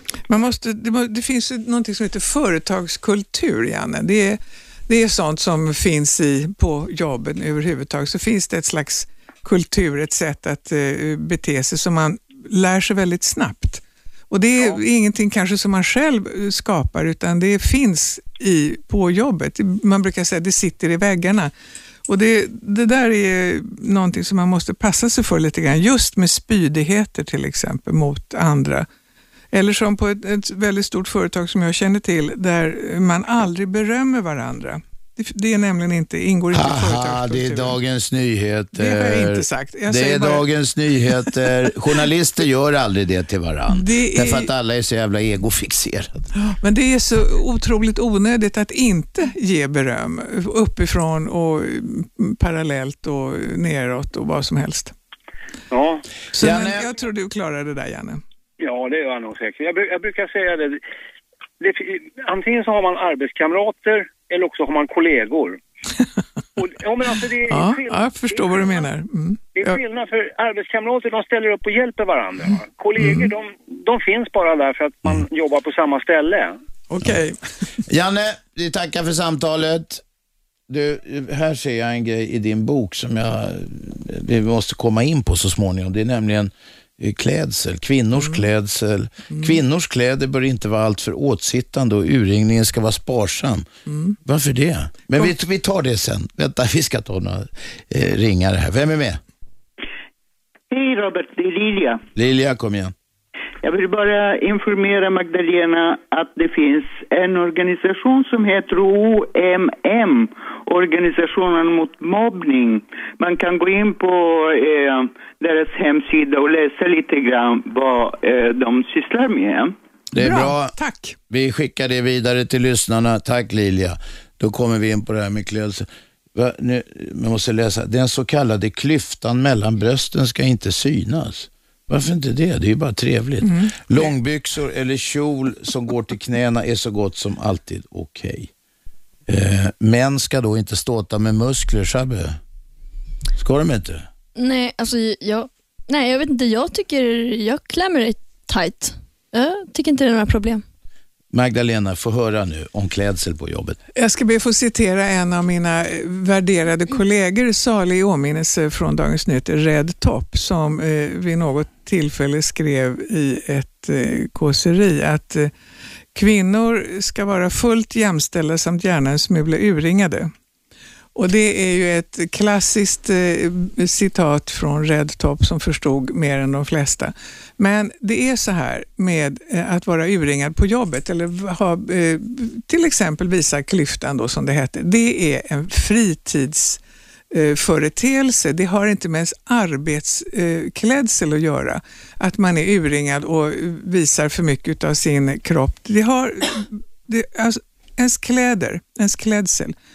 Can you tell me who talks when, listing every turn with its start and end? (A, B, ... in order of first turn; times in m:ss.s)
0:00.3-0:21.5 A
0:22.1-0:28.8 A
0:29.5-0:37.8 A
0:36.5-0:46.3 B
0:38.8-0:40.5 A
0:43.7-0:44.5 A
0:46.4-0:54.9 A
0:55.7-0:56.0 C
0:56.3-0:58.2 A
0:56.4-0:56.8 B
0:58.6-1:00.8 C
1:01.6-1:05.6 C
1:06.6-1:08.9 C
1:07.5-1:09.8 A
1:09.5-1:16.6 C
1:13.0-1:13.3 A
1:16.9-1:17.4 A
1:17.9-1:20.0 B
1:20.7-1:33.7 B
1:29.3-1:29.6 A
1:33.9-1:34.2 A
1:34.2-1:39.2 B
1:40.7-1:42.0 D
1:42.2-1:42.9 B
1:43.6-1:59.7 D
2:00.1-2:00.7 B
2:00.2-2:01.2 A
2:01.3-2:18.5 B
2:13.4-2:14.1 A
2:19.3-2:22.4 B
2:23.3-2:24.1 B
2:24.4-2:30.6 E
2:31.3-2:33.8 B
2:34.0-2:45.5 A
2:46.1-2:50.3 A
2:51.2-3:06.8 A
3:07.3-3:19.7 A